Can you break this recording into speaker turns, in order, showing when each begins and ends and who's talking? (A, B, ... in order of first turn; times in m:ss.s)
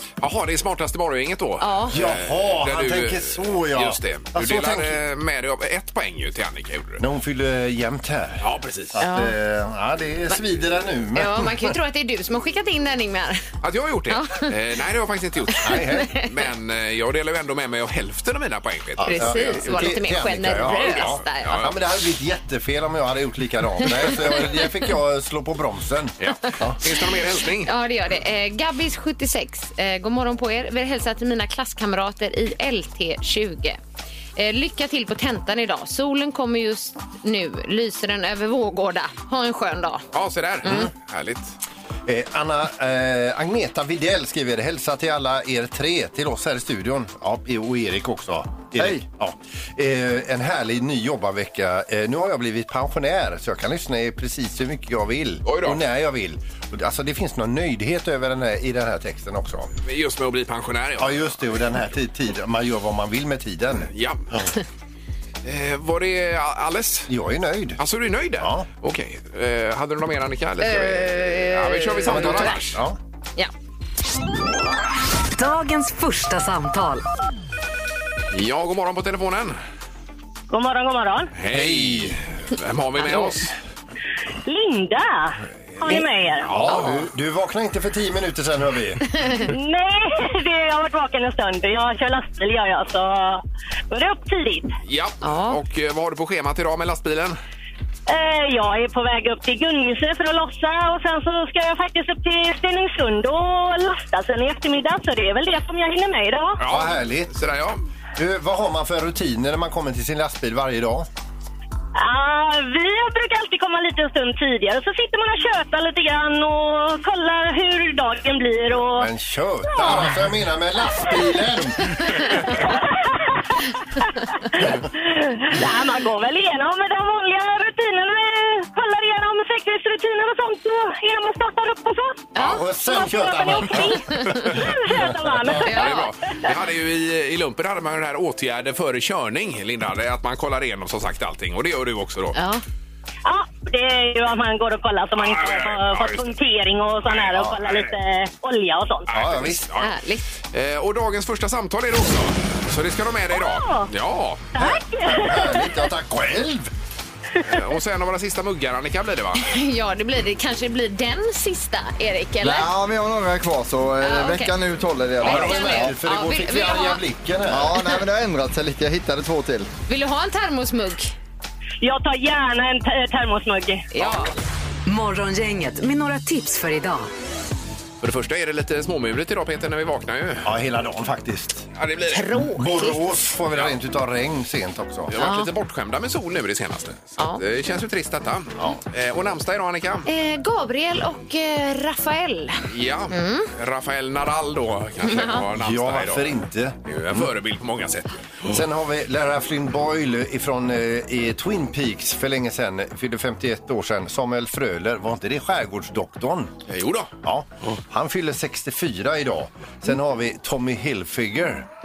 0:00.2-0:07.0 A
0:01.6-0:02.0 B
0:01.9-0:05.0 C
0:07.0-0:11.7 C
0:08.4-0:09.0 A
0:09.0-0:09.4 B
0:11.2-0:13.4 B
0:13.6-0:21.8 A
0:14.1-0:14.5 B
0:15.5-0:16.3 B
0:15.6-0:16.2 C
0:19.0-0:26.8 C
0:19.0-0:21.7 B
0:26.2-0:27.7 A
0:27.6-0:33.8 B
0:34.4-0:40.1 B
0:40.1-0:41.5 A
0:42.1-0:59.7 C
0:48.8-0:49.0 D
0:55.4-0:55.8 A
0:59.8-1:01.9 A
1:01.0-1:04.5 C
1:03.9-1:04.3 A
1:05.4-1:07.1 A
1:07.1-1:07.8 C
1:07.8-1:12.8 A
1:08.4-1:08.7 C
1:10.6-1:12.6 B
1:12.0-1:13.0 C
1:15.3-1:17.0 E
1:18.3-1:19.6 A
1:20.5-1:21.3 F
1:21.4-1:23.5 A
1:21.5-1:22.2 C
1:23.0-1:23.4 B
1:24.5-1:26.5 F
1:25.8-1:29.0 C
1:26.4-1:27.1 A
1:29.2-1:29.5 B
1:29.5-1:34.8 F
1:34.8-1:37.4 A
1:35.2-1:35.6 B
1:38.1-1:46.6 F
1:46.6-1:47.8 A
1:46.6-1:47.3 C
1:48.2-1:51.1 C
1:52.0-1:59.1 F
1:58.9-2:02.5 C
1:59.7-2:00.0 F
2:02.2-2:02.6 B
2:02.7-2:03.4 F
2:04.0-2:12.3 F
2:12.4-2:15.6 C
2:12.8-2:16.3 F
2:14.1-2:14.5 B
2:15.6-2:16.1 B
2:15.7-2:22.4 A
2:22.4-2:22.6 B
2:23.2-2:29.1 F
2:25.2-2:26.3 A
2:27.3-2:27.7 A
2:29.1-2:29.9 A
2:29.1-2:29.7 C
2:29.8-2:30.2 B
2:30.5-2:34.5 A
2:33.3-2:33.9 F
2:34.6-2:35.7 F
2:34.6-2:36.7 C
2:37.5-2:39.5 A
2:39.4-2:42.7 B
2:42.4-2:45.9 D
2:44.0-2:44.5 B
2:45.2-2:47.0 B
2:45.2-2:47.8 C
2:47.5-2:49.7 D
2:49.9-2:51.1 B
2:51.8-2:53.8 F
2:53.9-2:54.3 B
2:54.0-2:54.3 A
2:54.9-2:57.1 E
2:58.0-3:00.5 A
3:00.4-3:01.7 C
3:01.8-3:02.3 A
3:02.1-3:03.0 B
3:02.5-3:05.1 C
3:05.1-3:10.1 A
3:05.2-3:05.5 B
3:10.1-3:13.5 B
3:12.7-3:18.6 A
3:15.0-3:15.4 B
3:15.6-3:17.3 C
3:18.5-3:26.5 C
3:26.7-3:27.1 A
3:27.2-3:31.7 C